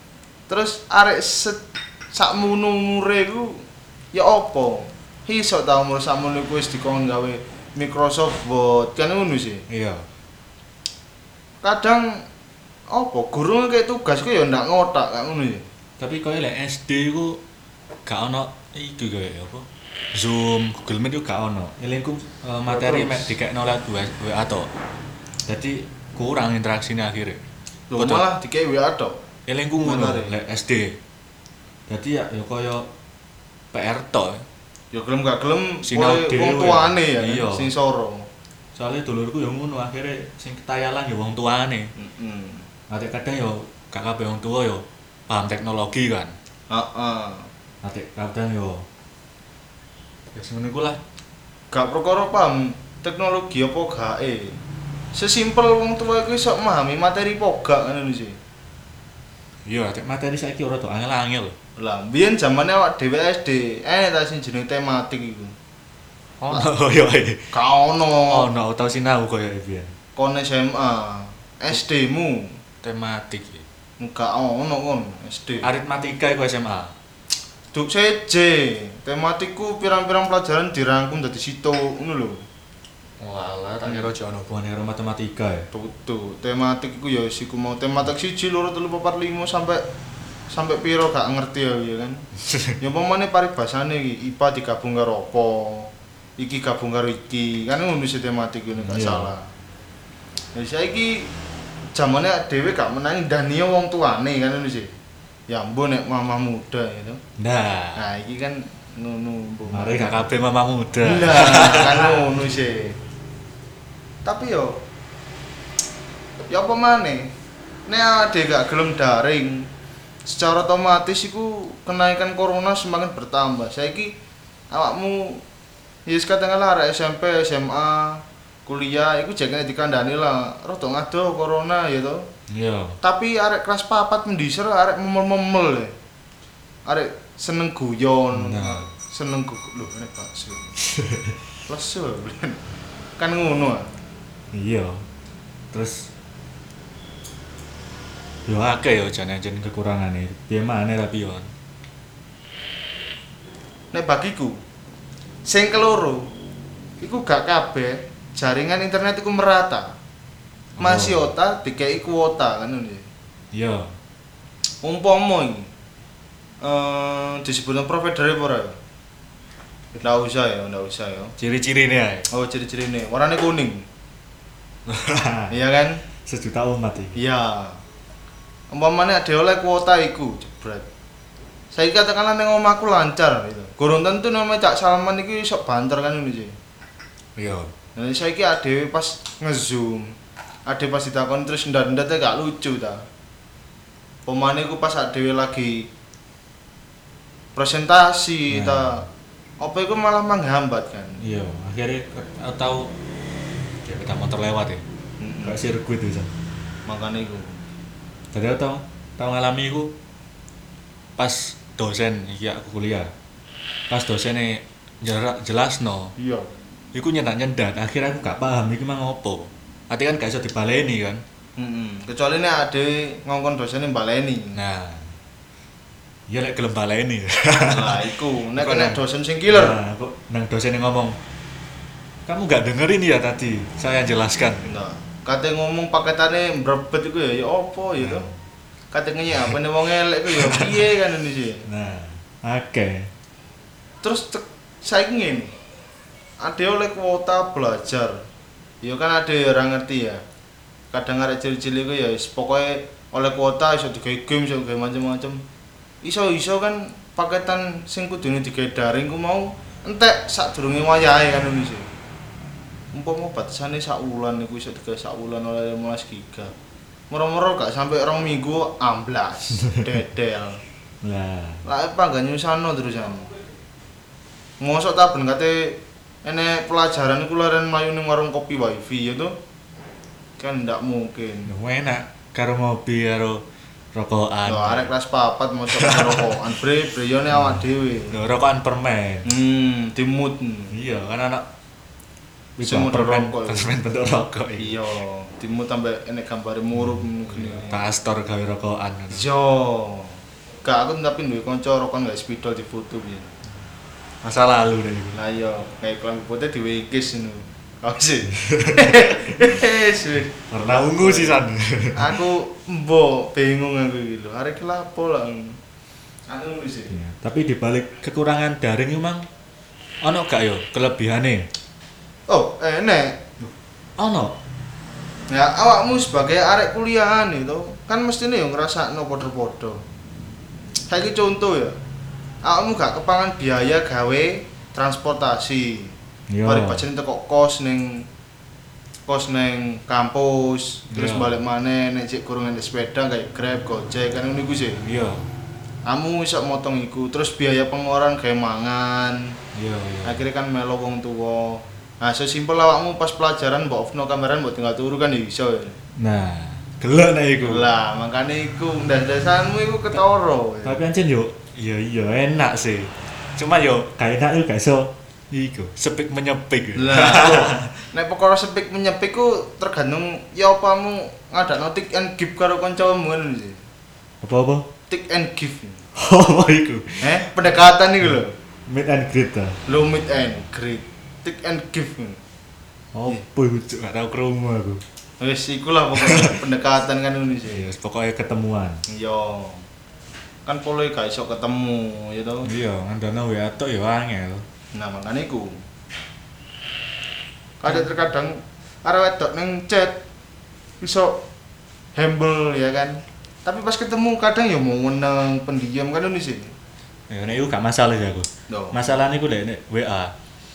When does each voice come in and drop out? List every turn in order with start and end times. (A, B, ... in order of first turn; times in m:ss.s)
0:00.5-0:01.6 A
0:02.1-0:09.6 A
0:09.7-0:10.0 B
0:11.6-0:12.2 A
0:12.9-0:15.7 A
0:16.0-0:17.4 B
0:18.1-0:24.7 B
0:22.7-0:23.3 A
0:25.5-0:27.4 B
0:27.9-0:29.2 A
0:28.0-0:28.3 B
0:29.5-0:31.0 B
0:29.8-0:30.3 A
0:31.9-0:32.9 B
0:33.7-0:34.4 B
0:34.9-0:38.3 A
0:35.8-0:37.7 B
0:38.8-0:41.9 B
0:42.0-0:42.7 A
0:42.9-0:46.3 B
0:46.7-0:47.5 A
0:47.8-0:48.9 B
0:50.3-0:51.0 B
0:51.7-0:54.6 A
0:55.1-0:58.4 A
0:59.7-1:01.6 B
1:01.8-1:05.6 A
1:06.4-1:07.5 B
1:07.5-1:08.5 A
1:08.3-1:09.9 B
1:10.2-1:12.6 A
1:12.8-1:13.6 B
1:14.0-1:15.7 A
1:15.6-1:16.9 B
1:17.7-1:22.4 A
1:23.2-1:25.7 B
1:23.8-1:24.1 A
1:25.7-1:29.8 A
1:30.5-1:32.2 A
1:32.4-1:32.8 B
1:32.8-1:39.5 A
1:38.8-1:39.3 B
1:40.6-1:41.3 A
1:42.0-1:44.9 A
1:45.5-1:47.2 A
1:47.4-1:48.0 B
1:48.0-1:50.2 A
1:49.7-1:52.2 B
1:51.0-1:53.0 A
1:54.2-1:54.8 A
1:56.4-1:57.3 A
1:57.9-1:59.7 A
2:00.3-2:04.1 A
2:04.7-2:05.4 A
2:06.1-2:12.3 A
2:12.5-2:13.0 B
2:13.0-2:16.0 A
2:16.9-2:20.7 A
2:18.3-2:18.9 B
2:20.8-2:21.4 B
2:21.7-2:22.6 A
2:23.2-2:23.9 A
2:24.5-2:25.0 B
2:25.7-2:26.1 B
2:28.5-2:31.5 B
2:33.9-2:34.6 A
2:35.4-2:36.3 A
2:37.0-2:40.0 A
2:40.8-2:41.3 B
2:40.8-2:43.1 A
2:43.5-2:43.9 B
2:44.8-2:45.7 A
2:46.6-2:48.8 A
2:50.0-2:51.3 A
2:51.4-2:52.3 B
2:52.3-2:53.9 A
2:54.9-2:55.6 B
2:55.5-2:56.0 A
2:56.2-2:57.2 B
2:57.2-2:57.8 A
2:58.7-3:00.9 A
3:01.7-3:06.6 A
3:07.4-3:07.7 B
3:08.0-3:10.2 A
3:10.7-3:13.1 A
3:14.3-3:15.9 A
3:17.6-3:19.1 A
3:18.5-3:18.9 B
3:19.6-3:21.2 A
3:21.2-3:22.9 B
3:23.8-3:24.8 B
3:25.2-3:25.6 A
3:25.4-3:26.3 B
3:26.9-3:27.6 A
3:28.3-3:29.9 B
3:31.2-3:33.1 B
3:33.9-3:36.1 B
3:36.2-3:36.5 A
3:36.9-3:41.2 B
3:41.6-3:44.6 A
3:44.6-3:45.2 B
3:46.3-3:51.2 B
3:47.7-3:49.8 A
3:52.3-3:54.7 B
3:54.7-3:58.3 A
3:58.0-3:58.4 B
3:58.9-4:01.6 A
4:00.3-4:00.8 B
4:01.7-4:03.1 B
4:04.0-4:05.5 A
4:06.4-4:08.2 A
4:08.8-4:10.2 A
4:10.9-4:15.4 A
4:16.0-4:21.9 A
4:22.9-4:26.5 A
4:27.1-4:30.6 A
4:29.6-4:29.9 B
4:31.0-4:31.6 B
4:31.6-4:33.3 A
4:34.6-4:39.3 A
4:40.4-4:41.5 A
4:41.5-4:43.4 B
4:43.9-4:44.9 B
4:44.5-4:48.1 A
4:45.7-4:46.4 B
4:48.1-4:49.3 B
4:49.3-4:50.7 A
4:50.7-4:51.5 B
4:52.6-4:54.8 B
4:52.6-4:53.7 A
4:54.6-4:57.8 A
4:56.8-4:59.3 B
4:59.1-5:03.3 A
5:04.2-5:05.2 B
5:05.1-5:11.4 A
5:08.3-5:09.5 B
5:10.5-5:12.2 B
5:12.0-5:15.6 A
5:16.3-5:16.9 A
5:16.9-5:19.3 B
5:20.0-5:21.5 B
5:22.3-5:23.2 A
5:23.4-5:24.4 B
5:25.3-5:29.8 A
5:30.9-5:31.8 A
5:32.4-5:35.9 A
5:36.3-5:36.9 B
5:36.4-5:38.1 A
5:39.1-5:44.8 A
5:40.9-5:41.4 B
5:44.8-5:45.3 B
5:45.9-5:49.4 A
5:49.6-5:50.2 B
5:50.0-5:55.8 A
5:56.0-5:57.7 B
5:57.4-6:00.8 A
6:00.6-6:07.7 B
6:06.8-6:13.6 A
6:14.2-6:14.7 B
6:14.9-6:15.8 A
6:16.0-6:17.2 B
6:17.0-6:18.4 A
6:18.7-6:19.6 B
6:19.7-6:22.2 A
6:22.9-6:24.8 B
6:25.2-6:27.7 A
6:26.0-6:26.4 B
6:27.5-6:28.8 B
6:28.9-6:29.6 A
6:30.4-6:32.5 A
6:32.4-6:34.4 B
6:34.7-6:35.6 A
6:37.6-6:40.0 A
6:40.8-6:41.2 A
6:42.0-6:46.5 A
6:47.1-6:50.1 B
6:48.5-6:48.8 A